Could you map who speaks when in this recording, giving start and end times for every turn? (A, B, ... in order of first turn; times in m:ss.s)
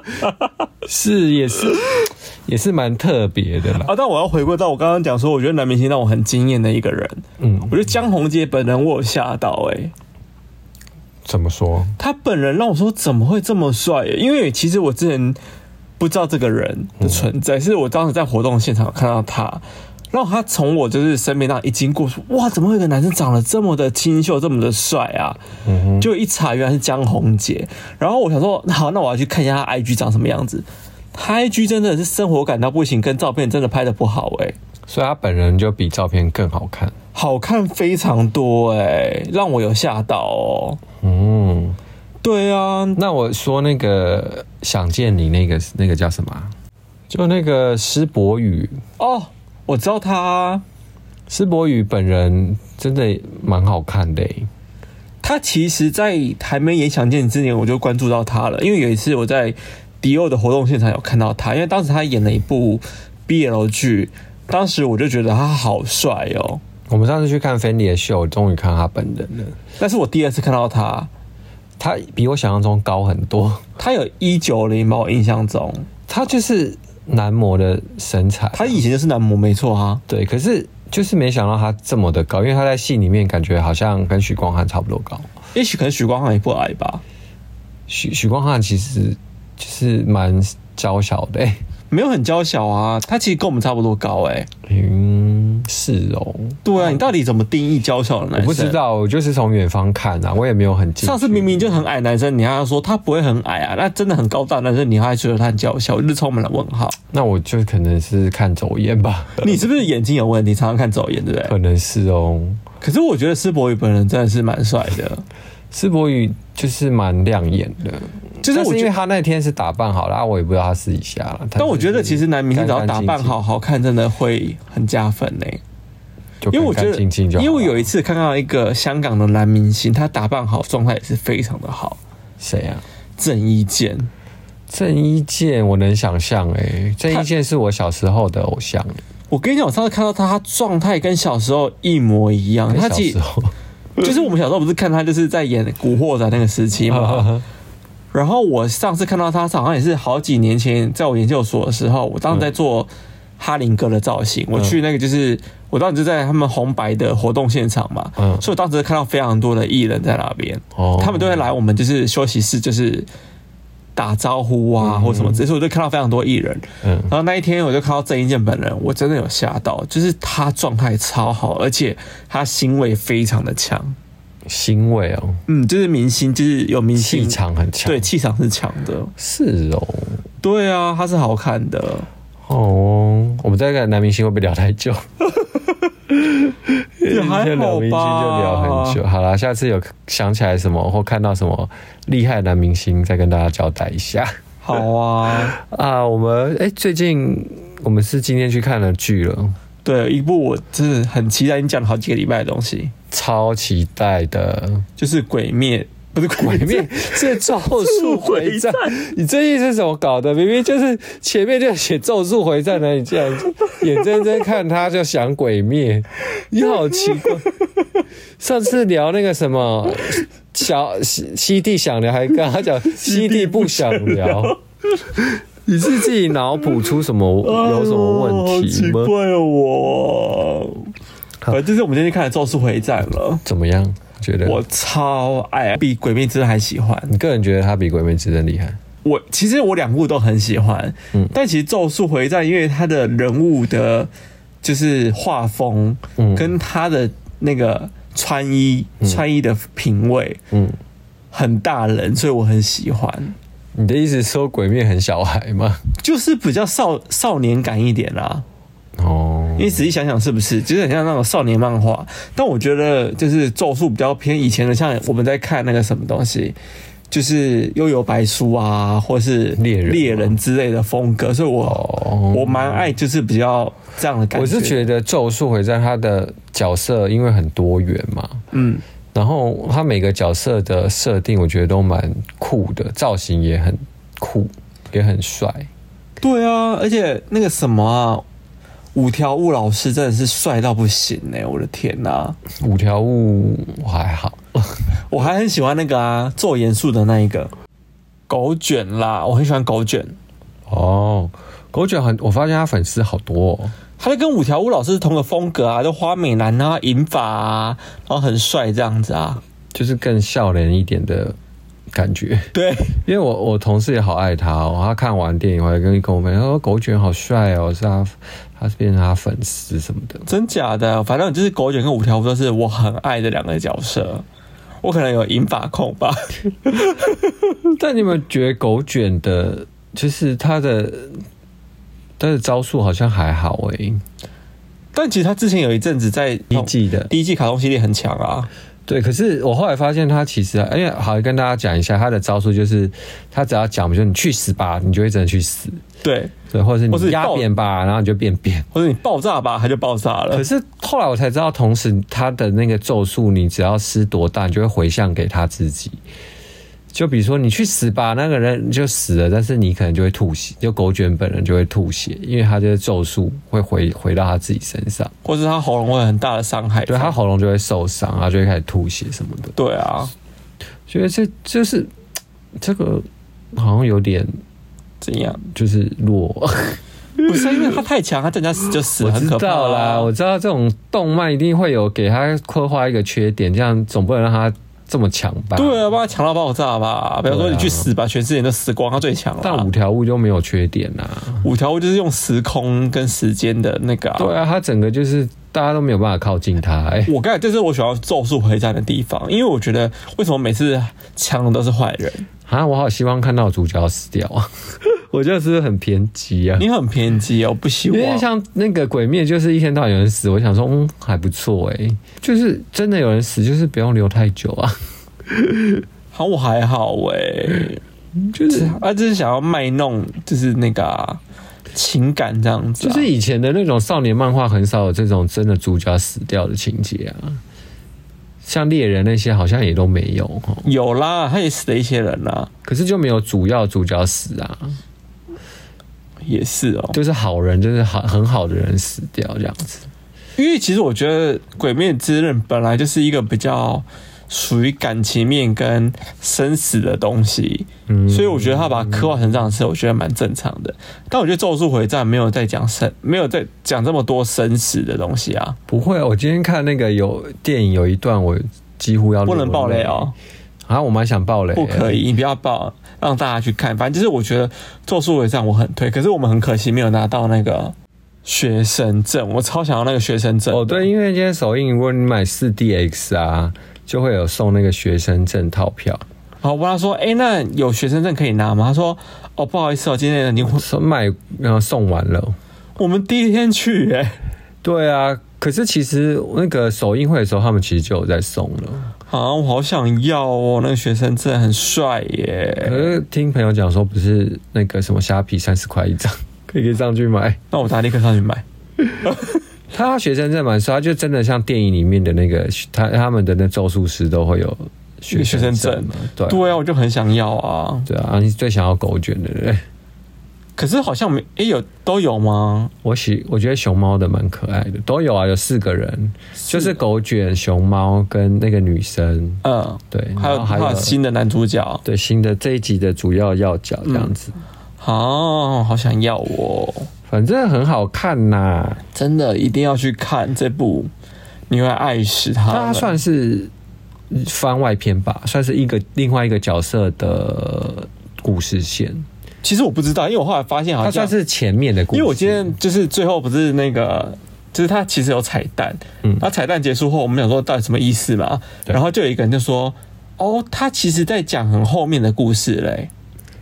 0:00.8-0:03.9 A
0:03.8-0:09.9 B
0:07.4-0:07.8 A
0:11.3-0:12.0 A
0:12.0-0:15.4 B
0:16.0-0:25.4 B
0:17.0-0:17.2 A
0:25.6-0:26.1 A
0:26.0-0:34.6 B
0:34.9-0:37.0 A
0:37.2-0:40.8 B
0:41.0-0:41.8 A
0:42.2-0:43.0 B
0:43.0-0:46.5 A
0:47.1-0:48.8 A
0:49.0-0:50.6 B
0:51.3-0:54.5 A
0:55.2-1:06.6 B
1:06.9-1:09.6 A
1:09.8-1:11.1 B
1:11.8-1:13.6 A
1:13.8-1:15.9 B
1:16.1-1:18.8 A
1:18.5-1:20.0 B
1:20.1-1:25.3 A
1:25.6-1:27.0 B
1:27.9-1:31.6 A
1:31.9-1:34.5 B
1:34.6-1:37.0 A
1:36.6-1:38.8 B
1:38.3-1:41.8 A
1:41.0-1:47.0 B
1:47.1-1:49.6 A
1:49.4-1:51.6 B
1:51.4-1:52.6 A
1:52.8-1:55.2 B
1:55.7-2:03.4 A
1:58.4-1:58.9 B
2:01.6-2:05.6 B
2:06.4-2:07.9 A
2:06.5-2:12.0 B
2:12.4-2:12.8 A
2:13.2-2:14.1 B
2:14.7-2:19.0 A
2:19.3-2:23.2 B
2:22.7-2:23.5 A
2:24.0-2:27.3 B
2:26.9-2:27.4 A
2:28.1-2:43.1 B
2:38.2-2:38.4 A
2:40.8-2:41.4 A
2:44.0-2:54.0 B
2:44.8-2:45.4 A
2:46.8-2:47.1 A
2:54.5-2:55.4 A
2:55.5-2:59.1 B
2:57.0-2:58.1 A
2:59.2-3:00.2 A
3:00.4-3:02.1 B
3:02.5-3:05.1 A
3:06.2-3:14.3 A
3:07.1-3:09.0 B
3:14.6-3:15.6 B
3:15.5-3:19.6 A
3:19.8-3:22.9 B
3:23.1-3:24.9 A
3:25.0-3:29.0 B
3:26.4-3:37.5 A
3:38.4-3:44.6 A
3:42.9-3:44.6 B
3:45.6-3:49.1 A
3:47.4-3:50.9 B
3:51.5-3:53.4 B
3:53.4-3:54.6 A
3:54.4-3:57.1 B
3:57.1-3:58.8 A
3:59.0-4:04.1 B
4:04.6-4:10.4 B
4:06.2-4:06.6 A
4:10.5-4:10.8 A
4:11.3-4:13.4 B
4:13.8-4:15.8 A
4:16.0-4:18.4 B
4:19.0-4:19.8 A
4:19.6-4:26.6 B
4:27.1-4:34.9 B
4:29.6-4:30.4 A
4:31.6-4:32.9 A
4:34.3-4:38.4 A
4:38.5-4:38.8 B
4:39.1-4:45.7 A
4:46.2-4:48.2 B
4:49.0-4:52.4 B
4:52.6-4:54.8 A
4:55.1-4:57.5 B
4:58.3-5:00.2 B
5:00.7-5:03.8 A
5:04.0-5:09.4 B
5:09.7-5:11.4 A
5:11.9-5:12.5 A
5:12.5-5:13.0 B
5:13.0-5:20.3 A
5:20.3-5:24.2 B
5:24.8-5:27.3 B
5:27.7-5:31.2 A
5:32.2-5:34.0 A
5:34.9-5:38.5 B
5:36.5-5:37.1 A
5:38.9-5:45.8 A
5:46.0-5:46.4 B
5:46.5-5:48.7 A
5:46.9-5:47.5 B
5:48.7-5:50.5 B
5:50.3-5:56.0 A
5:56.9-6:05.1 A
6:05.2-6:07.2 B
6:06.9-6:09.6 A
6:09.6-6:10.1 B
6:10.9-6:11.9 A
6:12.6-6:14.3 A
6:15.0-6:15.5 B
6:15.6-6:17.8 A
6:17.2-6:20.1 B
6:19.0-6:25.8 A
6:25.6-6:29.7 B
6:27.3-6:27.9 A
6:29.4-6:31.4 A
6:31.4-6:34.3 B
6:34.2-6:37.1 A
6:37.1-6:42.3 B
6:42.5-6:46.7 A
6:46.6-6:48.3 B
6:47.9-6:54.8 A
6:55.3-6:55.8 A
6:56.1-6:57.8 B
6:58.2-6:58.8 A
6:58.5-7:01.2 B
7:01.7-7:03.1 B
7:02.8-7:07.4 A
7:08.4-7:10.7 A
7:10.6-7:12.5 B
7:12.6-7:14.8 A
7:16.2-7:17.0 B
7:16.9-7:19.9 A
7:20.4-7:35.6 B
7:27.9-7:29.2 A
7:35.7-7:40.1 A
7:39.3-7:40.1 B
7:40.7-7:42.0 A
7:41.6-7:50.9 B
7:50.5-7:56.0 A
7:56.4-8:00.6 B
8:00.4-8:02.4 A
8:02.8-8:04.2 B
8:04.6-8:08.9 A
8:09.1-8:13.0 B
8:12.6-8:17.4 A
8:17.5-8:18.4 B
8:19.0-8:19.4 B
8:19.7-8:26.5 A
8:25.1-8:27.9 B
8:27.9-8:29.6 A
8:30.6-8:32.7 B
8:32.8-8:41.0 A
8:36.4-8:36.8 B
8:39.4-8:41.8 B
8:41.8-8:44.4 A
8:43.8-8:44.1 B
8:44.8-8:46.9 B
8:47.1-8:48.8 A
8:48.9-8:50.9 B
8:51.5-8:53.0 B
8:52.5-8:53.5 A
8:54.1-8:59.1 A
8:59.4-9:01.1 B
9:00.8-9:02.6 A
9:01.9-9:12.9 B